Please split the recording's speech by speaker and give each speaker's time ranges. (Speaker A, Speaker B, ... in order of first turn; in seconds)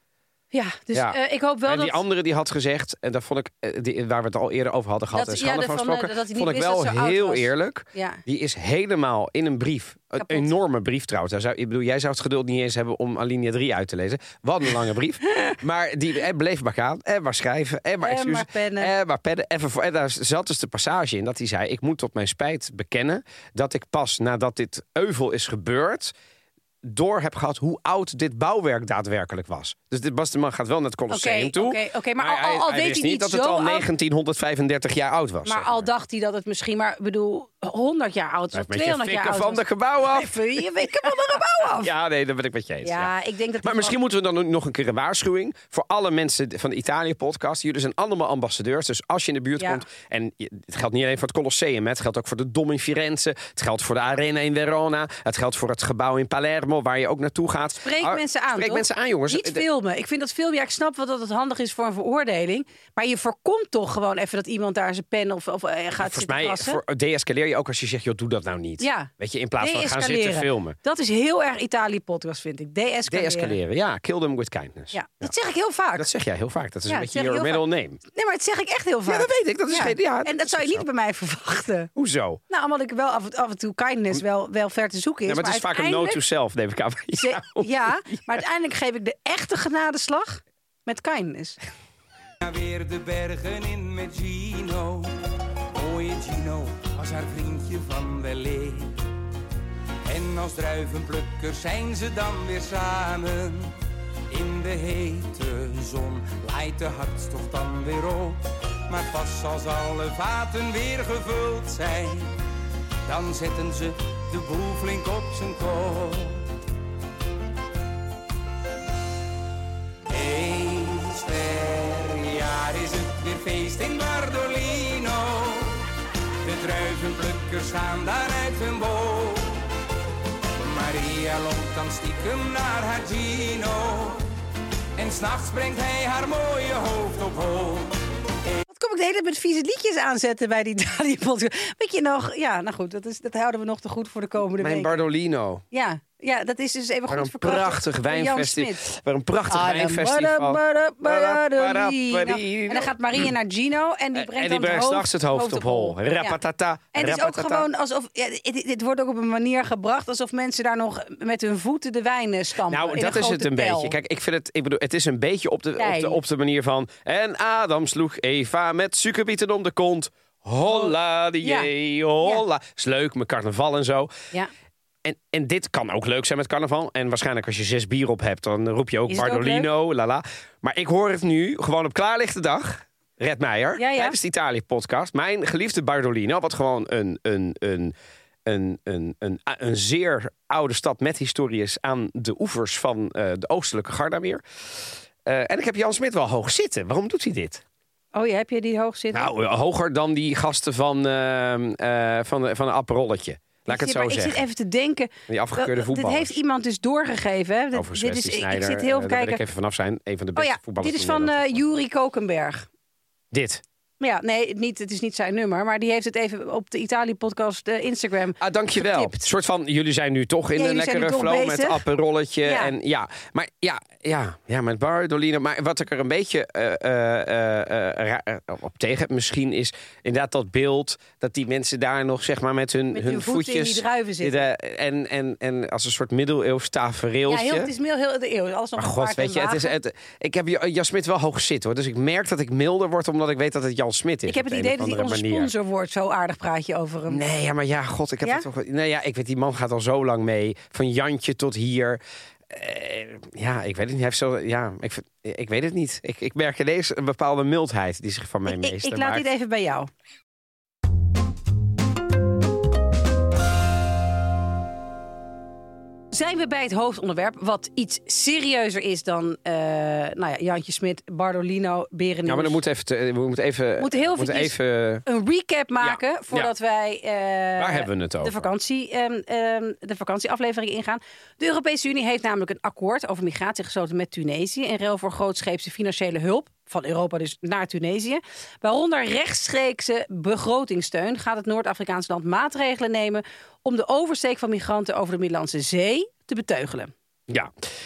Speaker A: 0.5-2.0, 5.1-8.2, 10.2-10.5, 18.0-18.9, 31.1-33.9, 35.4-41.9, 42.8-44.0, 49.6-49.8, 57.8-66.8, 68.8-73.5, 74.9-76.1, 76.9-81.9, 82.5-86.2, 87.1-91.6, 138.7-145.0, 145.7-148.8, 149.5-156.4, 156.9-163.9, 165.8-166.2, 171.4-171.7, 179.1-179.7, 183.8-184.2, 198.1-199.3, 203.7-209.4, 210.3-212.7, 214.0-219.2, 220.5-221.8, 222.4-222.7, 232.9-234.5, 237.3-239.7, 244.2-247.2, 258.4-259.9, 266.1-272.6, 273.8-296.9
Speaker B: 0.9-26.1, 26.8-35.9, 38.5-59.6, 66.0-70.8, 73.1-75.3, 76.0-78.0, 79.0-80.8, 82.0-82.4, 85.3-88.4, 144.6-145.6, 147.1-153.3, 154.1-157.7, 162.7-174.1, 175.0-187.9, 188.4-197.6, 199.1-204.4, 205.3-206.3, 207.7-211.6, 213.3-213.6, 218.4-237.7, 238.8-245.5, 247.1-259.2, 272.2-275.0, 275.8-276.5, 277.6-278.5
Speaker C: 92.4-95.1, 95.7-99.0, 100.0-103.7, 104.3-112.3, 113.0-116.4, 120.1-125.8, 126.4-129.6, 130.6-134.3, 134.9-138.0